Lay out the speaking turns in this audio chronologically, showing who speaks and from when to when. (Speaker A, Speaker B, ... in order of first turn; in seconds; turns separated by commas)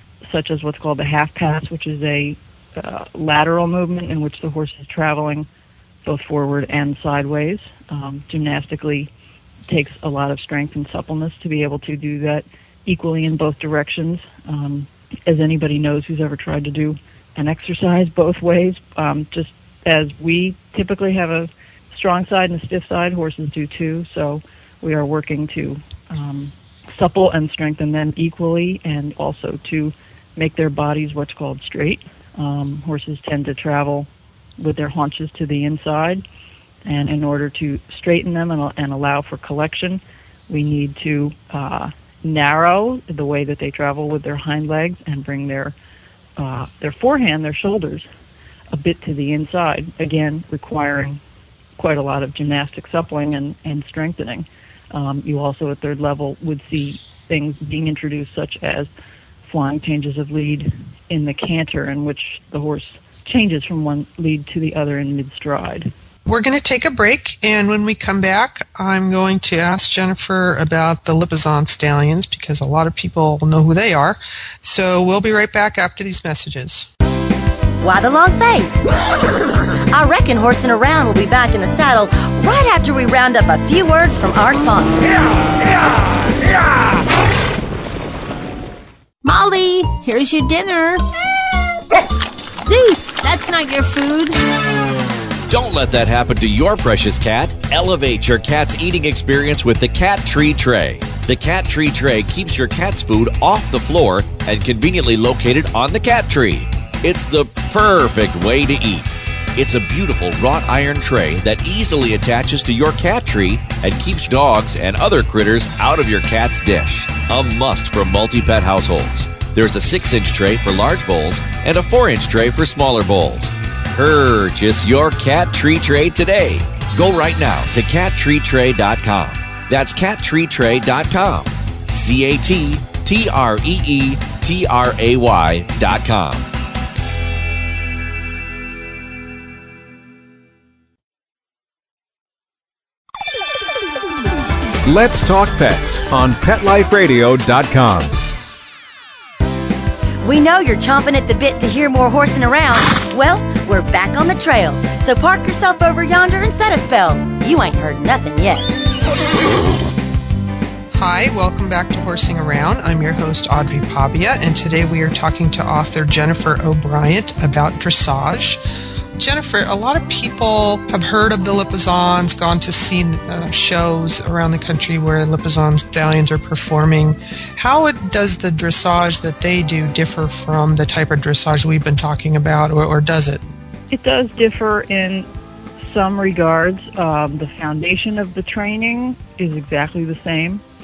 Speaker A: 0.2-5.5, Speaker A: 6.0-9.1, Speaker A: 9.7-34.1, Speaker A: 34.6-36.2, Speaker A: 36.8-45.7, Speaker A: 46.4-48.1, Speaker A: 48.7-51.2, Speaker A: 51.8-58.9, Speaker A: 59.5-65.9, Speaker B: 66.2-76.9, Speaker C: 77.8-78.9, Speaker C: 79.9-85.3, Speaker D: 89.2-91.0, Speaker D: 92.6-94.4, Speaker E: 95.5-136.4, Speaker F: 144.8-148.1, Speaker C: 150.2-158.7, Speaker B: 160.9-168.6, Speaker B: 169.1-183.4, Speaker A: 183.9-190.6